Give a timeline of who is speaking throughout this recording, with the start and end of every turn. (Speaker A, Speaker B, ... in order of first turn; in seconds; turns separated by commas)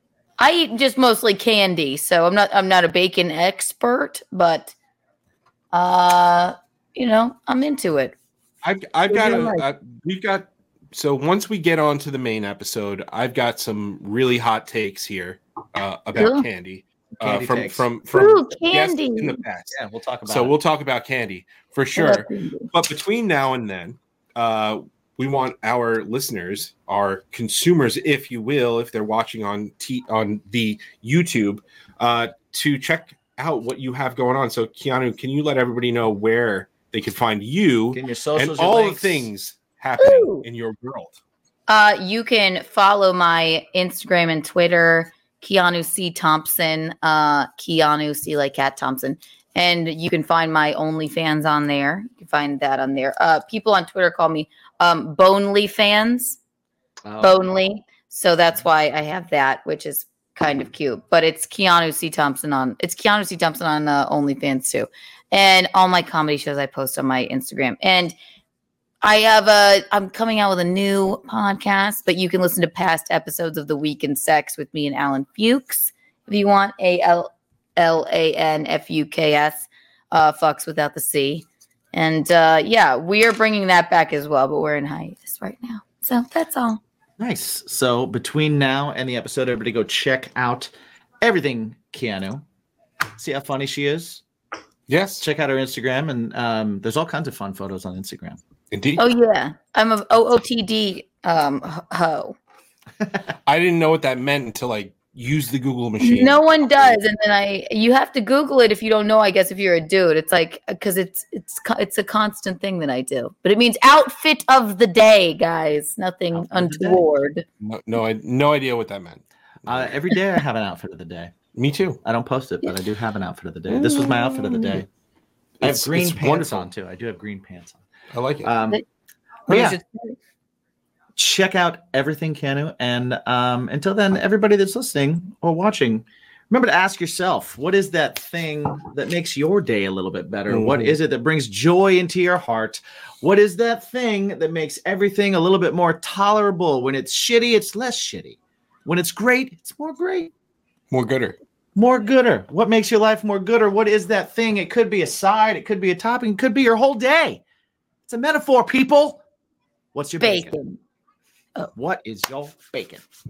Speaker A: 0.4-4.8, Speaker A: 5.7-8.2, Speaker B: 8.6-19.8, Speaker A: 9.1-9.6, Speaker A: 16.1-16.5, Speaker C: 17.2-17.9, Speaker A: 18.1-19.4, Speaker C: 19.7-20.6, Speaker B: 20.3-41.2, Speaker A: 22.0-22.7, Speaker C: 37.9-39.3, Speaker A: 40.0-40.5, Speaker A: 41.7-56.4, Speaker C: 57.0-57.4, Speaker A: 57.2-68.2, Speaker A: 69.0-86.8, Speaker C: 87.2-92.4, Speaker C: 93.2-94.2, Speaker B: 94.9-95.3, Speaker C: 95.2-98.4, Speaker B: 98.7-99.0, Speaker A: 99.0-102.3, Speaker B: 103.5-107.0, Speaker A: 106.0-117.5, Speaker C: 116.3-117.0, Speaker B: 117.6-119.9, Speaker C: 119.7-121.3, Speaker B: 121.5-122.0, Speaker C: 122.0-124.9, Speaker A: 123.8-124.8, Speaker B: 125.6-126.7, Speaker C: 125.6-127.8, Speaker B: 128.1-128.5, Speaker C: 128.4-128.8, Speaker A: 129.5-130.2, Speaker C: 129.5-129.8, Speaker C: 131.2-150.3, Speaker B: 140.5-141.0, Speaker B: 150.9-151.4, Speaker C: 151.8-157.4, Speaker C: 158.1-159.2, Speaker C: 159.9-160.6, Speaker A: 160.2-160.8, Speaker C: 161.8-163.0